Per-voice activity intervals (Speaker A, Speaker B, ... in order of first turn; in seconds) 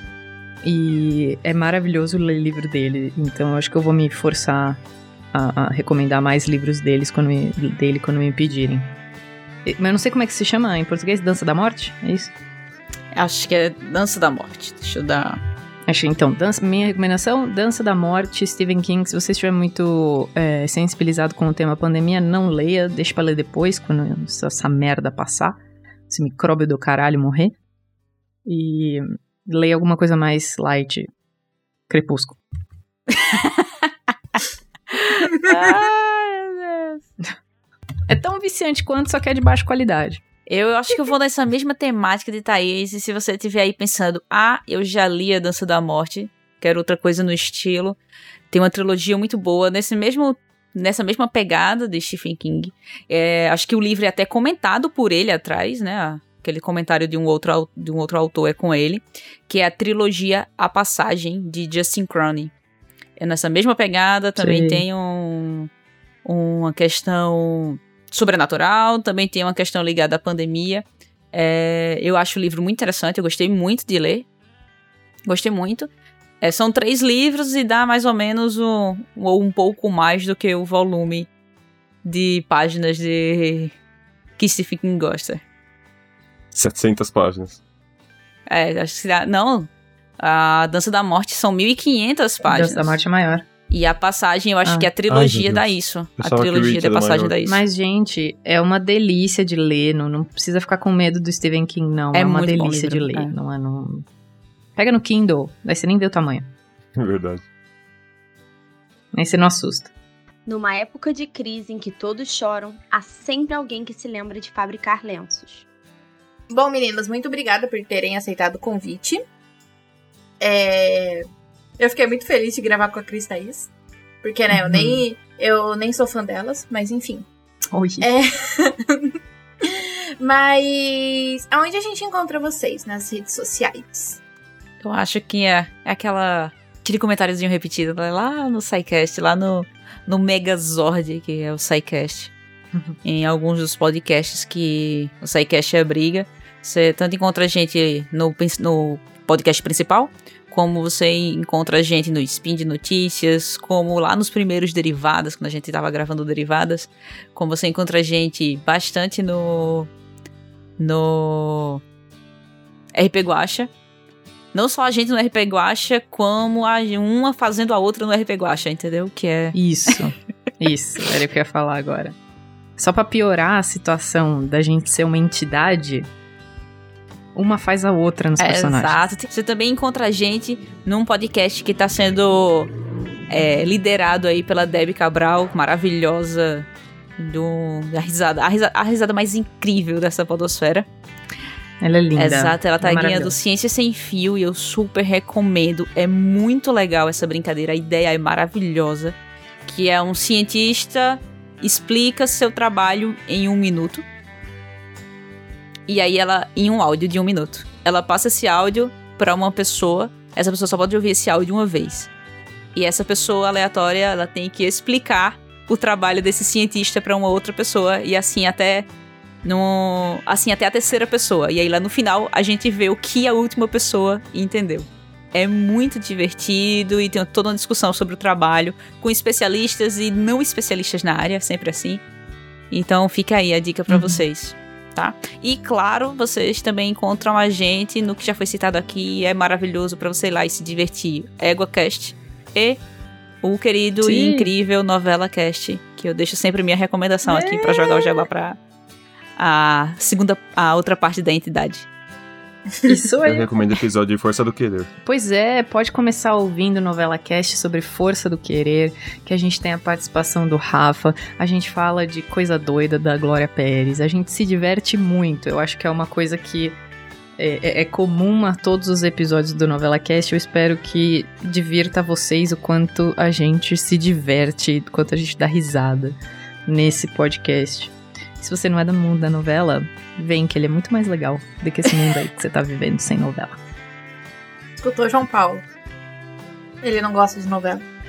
Speaker A: 0.6-4.8, 5.3-8.9, 9.7-12.3, 15.9-25.6, 26.1-27.6, 28.5-31.1, 31.9-32.4, 38.1-40.2, 64.4-64.8, 92.4-93.5, 97.5-104.0, 104.8-106.5, 109.1-109.9, 124.5-125.0, 127.7-128.1, 169.5-172.2, 172.8-176.1, 177.3-179.1, 191.8-193.3, 233.9-234.2, 244.0-244.5, 247.3-248.2, 252.9-253.6, 255.1-266.8, 267.4-283.6
Speaker B: 13.1-15.4, 33.1-33.5, 34.9-37.0, 40.5-48.0, 48.5-62.5, 63.2-65.7, 66.2-74.3, 75.3-75.9, 76.4-81.3, 82.0-83.7, 84.4-85.4, 88.5-93.0, 93.7-97.6, 102.1-103.3, 134.8-142.3, 143.0-159.9, 160.8-161.8, 162.9-163.7, 164.5-170.0, 178.4-182.7, 183.3-186.7, 187.2-190.9, 192.2-204.1, 205.9-212.1, 212.8-218.9, 219.4-232.0, 232.7-242.8, 243.4-248.6, 249.4-251.9
Speaker C: 86.5-87.6, 95.1-95.7, 96.2-97.3, 107.0-107.4, 253.2-254.9
Speaker D: 110.5-115.7
Speaker E: 116.5-119.2, 120.4-121.3, 121.8-123.7, 124.2-127.3, 128.0-134.2, 284.8-285.6, 286.8-287.8